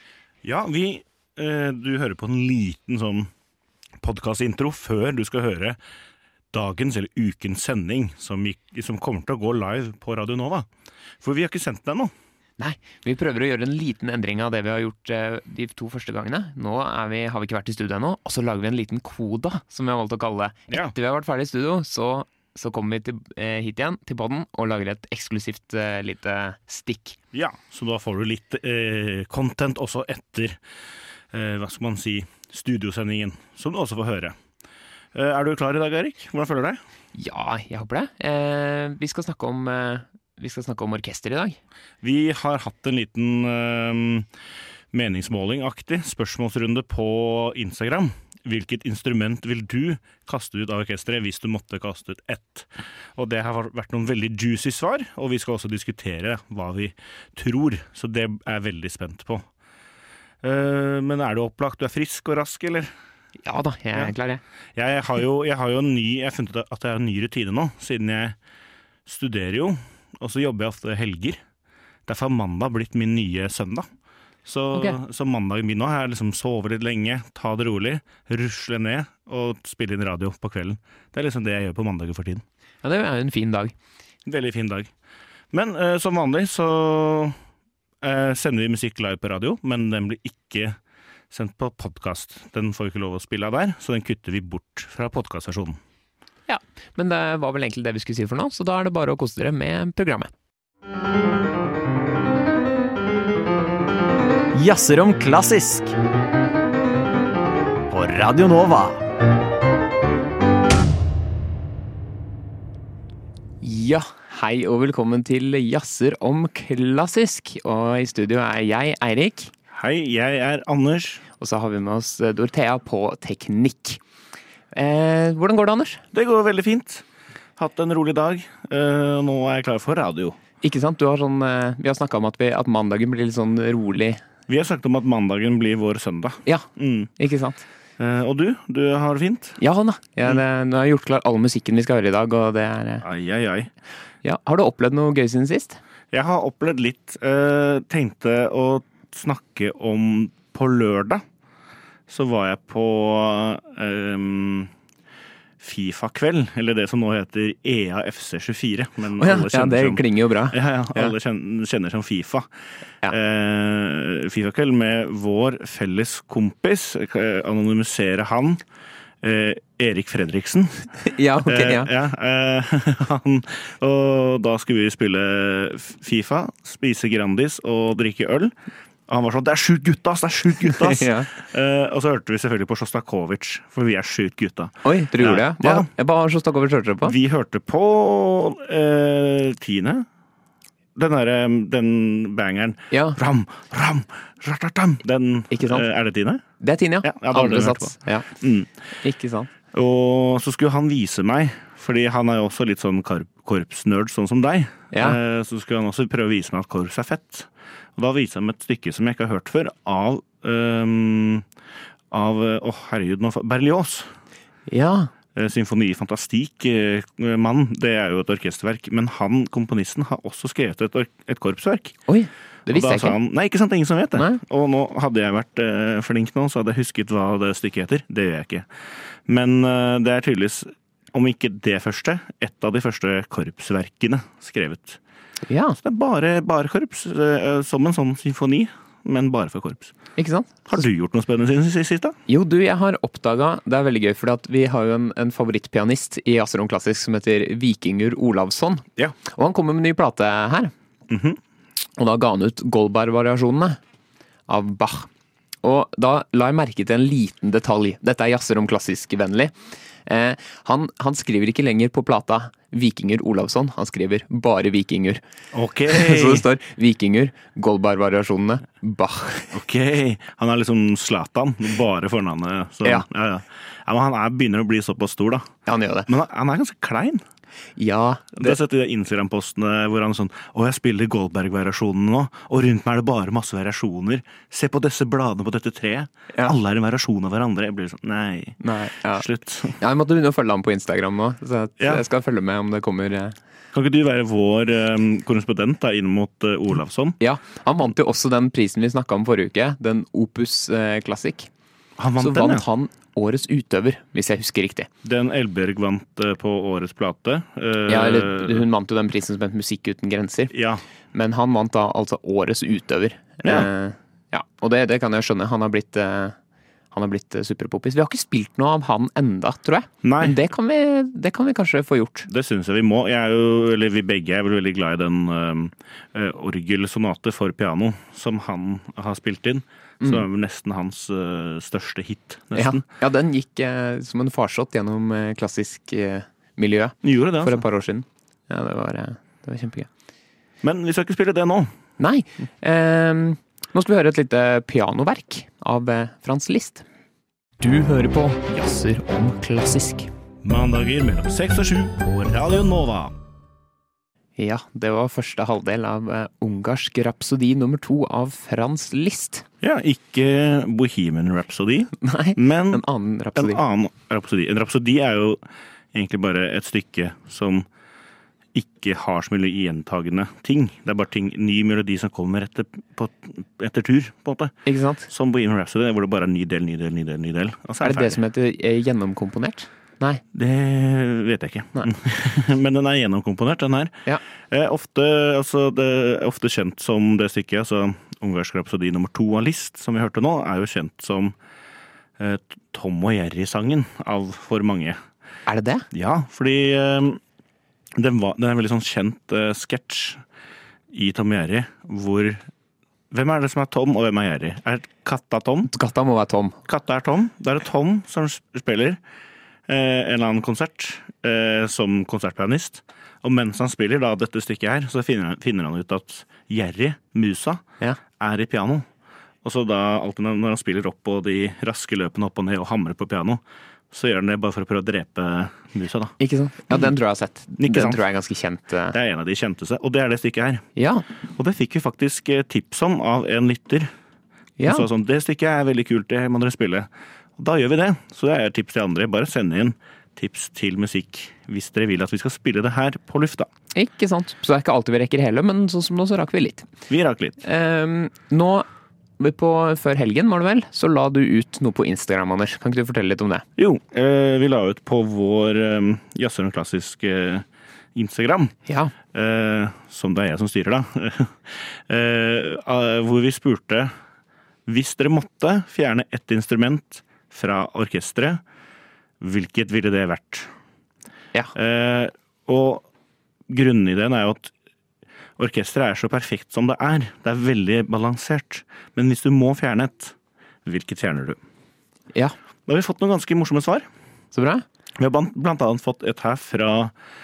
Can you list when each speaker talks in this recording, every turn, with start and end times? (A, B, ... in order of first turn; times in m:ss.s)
0:00.4-0:03.3 A
0:04.0-0:05.8 A
0:06.5-0:10.7 A
0:11.2-0:12.1 A
0:12.6-0:27.2 B
0:20.7-0:20.9 A
0:27.3-0:30.6 A
0:31.3-0:34.4 A
0:35.1-0:36.8 A
0:37.1-0:41.6 B
0:42.0-0:44.3 A
0:44.9-0:59.4 A
1:00.4-1:02.9 A
1:03.4-1:04.4 B
1:04.8-1:08.4 A
1:09.0-1:11.4 A
1:12.1-1:13.9 A
1:14.4-1:22.4 A
1:22.8-1:23.7 B
1:24.2-1:24.9 A
1:25.5-1:27.4 A
1:28.0-1:30.8 A
1:31.3-1:35.8 A
1:36.5-1:40.3 B
1:44.5-1:45.9 C
1:47.9-1:49.0 C
1:53.6-1:59.5 B
1:59.7-2:01.2 A
2:01.4-2:04.0 B
2:04.7-2:06.0 B
2:06.1-2:07.0 A
2:07.6-2:10.4 A
2:10.6-2:14.2 B
2:14.5-2:17.1 A
2:17.2-2:17.6 B
2:18.0-2:19.6 A
2:19.6-2:23.0 B
2:23.0-2:23.7 A
2:24.2-2:25.8 B
2:26.1-2:31.2 A
2:32.1-2:34.7 A
2:35.6-2:42.5 A
2:39.2-2:41.1 B
2:43.0-2:48.6 A
2:49.2-2:50.8 A
2:51.0-2:51.9 B
2:51.4-2:58.5 A
2:59.1-3:05.9 A
3:00.6-3:01.3 B
3:04.8-3:07.1 B
3:07.0-3:10.0 A
3:11.0-3:16.4 A
3:12.9-3:13.2 B
3:15.5-3:15.8 B
3:16.6-3:18.2 B
3:17.0-3:18.7 A
3:19.0-3:19.5 B
3:19.7-3:31.4 A
3:24.9-3:25.2 B
3:32.1-3:34.1 A
3:34.7-3:35.1 B
3:35.3-3:42.0 A
3:42.1-3:43.2 B
3:42.7-3:48.7 A
3:44.1-3:44.4 B
3:49.3-3:55.0 A
3:55.4-3:55.8 B
3:55.8-3:59.9 A
4:00.2-4:00.8 B
4:00.7-4:02.2 A
4:02.3-4:10.7 B
4:11.1-4:11.4 A
4:12.0-4:13.8 B
4:14.5-4:15.1 B
4:15.6-4:25.2 B
4:25.5-4:26.4 A
4:25.9-4:29.5 B
4:29.5-4:35.5 A
4:35.6-4:36.1 B
4:36.1-4:37.2 A
4:37.8-4:38.6 B
4:38.4-4:48.6 A
4:48.6-4:49.2 B
4:49.1-4:49.8 A
4:49.8-4:53.4 B
4:53.7-4:57.2 A
4:57.2-5:01.5 B
5:02.0-5:02.6 A
5:02.2-5:04.9 B
5:05.0-5:08.6 A
5:07.9-5:10.5 B
5:10.5-5:10.8 A
5:11.1-5:16.4 B
5:16.9-5:22.3 B
5:20.0-5:20.4 A
5:22.3-5:32.8 A
5:32.5-5:39.9 B
5:37.0-5:37.6 A
5:40.6-5:41.7 A
5:42.0-5:46.8 B
5:47.6-5:50.1 B
5:50.4-5:53.2 A
5:54.4-5:59.4 B
5:59.6-6:02.8 A
6:02.0-6:03.6 B
6:03.3-6:05.4 A
6:05.9-6:07.7 A
6:08.5-6:18.2 A
6:14.6-6:15.1 B
6:17.8-6:20.2 B
6:20.3-6:31.3 A
6:32.2-6:35.0 A
6:35.5-6:35.8 B
6:35.9-6:37.2 A
6:38.0-6:40.2 A
6:40.9-6:42.4 A
6:43.1-6:45.7 A
6:45.7-6:46.6 B
6:46.7-6:49.0 A
6:49.7-6:57.6 A
6:58.2-6:58.8 A
6:59.4-7:06.1 A
7:06.2-7:09.0 B
7:07.6-7:08.0 A
7:08.9-7:10.6 A
7:10.8-7:11.0 B
7:11.4-7:13.9 A
7:14.6-7:14.9 B
7:14.6-7:23.5 A
7:23.7-7:26.7 B
7:26.9-7:27.4 A
7:27.4-7:28.7 B
7:29.2-7:33.4 B
7:33.6-7:38.5 A
7:38.7-7:38.9 B
7:39.1-7:43.9 A
7:44.6-7:48.4 A
7:49.2-7:50.5 A
7:51.5-7:52.8 A
7:53.5-7:54.5 A
7:55.4-8:01.4 A
8:02.6-8:03.8 A
8:04.3-8:04.6 B
8:05.0-8:06.9 A